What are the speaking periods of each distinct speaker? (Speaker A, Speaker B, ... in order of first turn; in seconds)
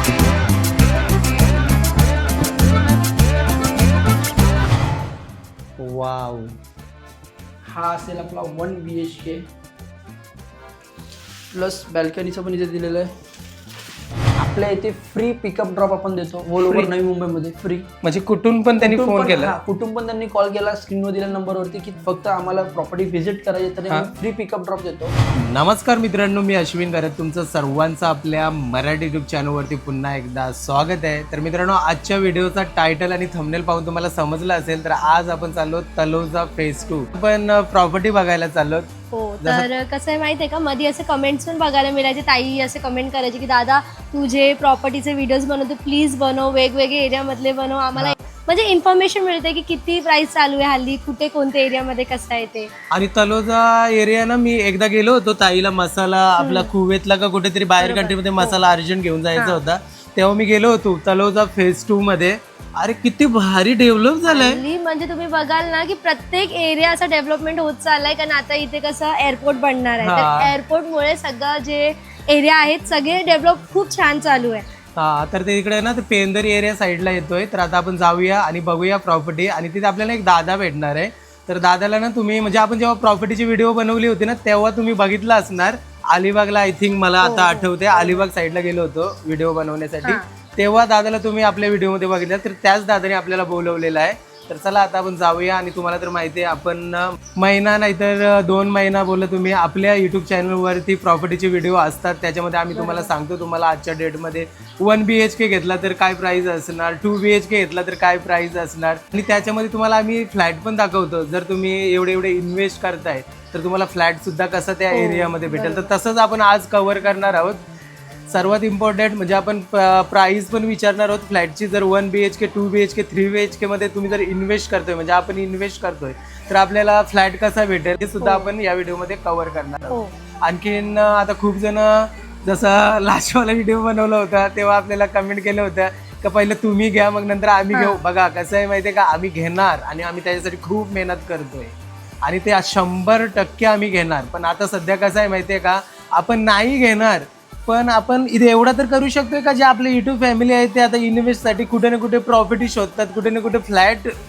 Speaker A: 5.8-6.5, 18.0-19.6, 25.3-38.9, 39.4-39.7, 52.9-64.6, 70.0-70.5, 75.0-117.6, 118.3-154.1
Speaker B: 7.7-9.4, 11.5-13.1, 14.4-17.9, 18.8-25.1
Speaker C: 39.1-52.7, 56.4-56.7, 57.8-58.6, 64.3-74.7, 87.2-88.2, 102.8-103.1, 114.9-115.9, 128.2-128.5, 137.7-138.0